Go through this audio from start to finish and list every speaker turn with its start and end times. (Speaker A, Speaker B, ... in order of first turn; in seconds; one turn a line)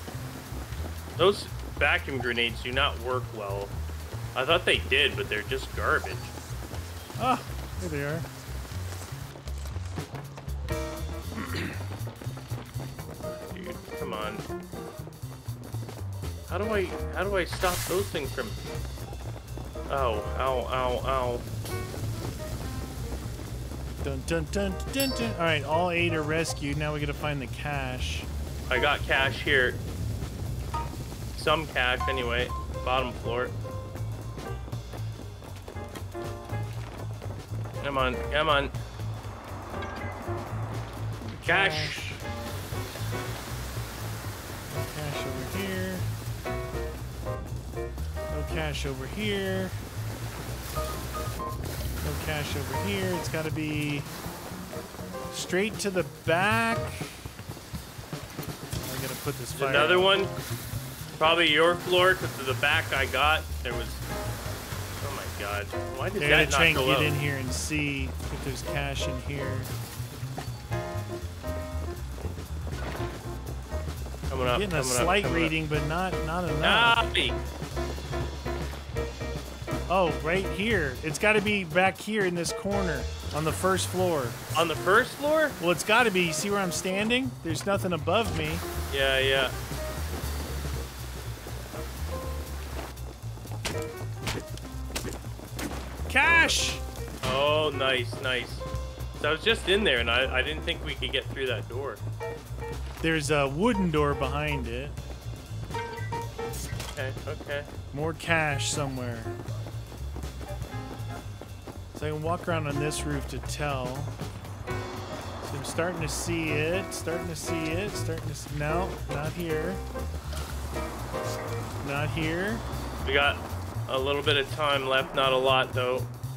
Speaker A: 1.2-3.7
Speaker A: 4.3-6.3
Speaker B: 7.2-8.3
Speaker B: 11.4-11.8
Speaker A: 13.3-14.4
Speaker A: 16.5-18.6
Speaker A: 19.9-21.4
Speaker B: 24.0-28.3
Speaker A: 28.7-29.8
Speaker A: 31.4-33.5
Speaker A: 37.8-38.7
Speaker B: 41.3-42.2
Speaker A: 41.5-42.0
Speaker B: 44.7-46.1
Speaker B: 48.3-49.8
Speaker B: 52.0-54.1
Speaker B: 55.3-57.2
Speaker B: 58.9-60.1
Speaker A: 59.6-60.3
Speaker A: 61.2-64.0
Speaker A: 65.0-67.2
Speaker B: 66.2-69.7
Speaker A: 74.3-75.5
Speaker B: 74.4-77.0
Speaker A: 76.6-77.4
Speaker B: 79.9-84.4
Speaker A: 84.5-85.6
Speaker B: 85.6-88.7
Speaker A: 88.9-89.5
Speaker B: 96.1-96.8
Speaker A: 97.2-98.7
Speaker A: 99.2-102.0
Speaker B: 103.0-105.0
Speaker A: 106.9-107.7
Speaker B: 107.9-109.3
Speaker B: 111.9-114.1
Speaker B: 115.5-119.8
Speaker B: 121.8-122.6
Speaker A: 123.0-126.1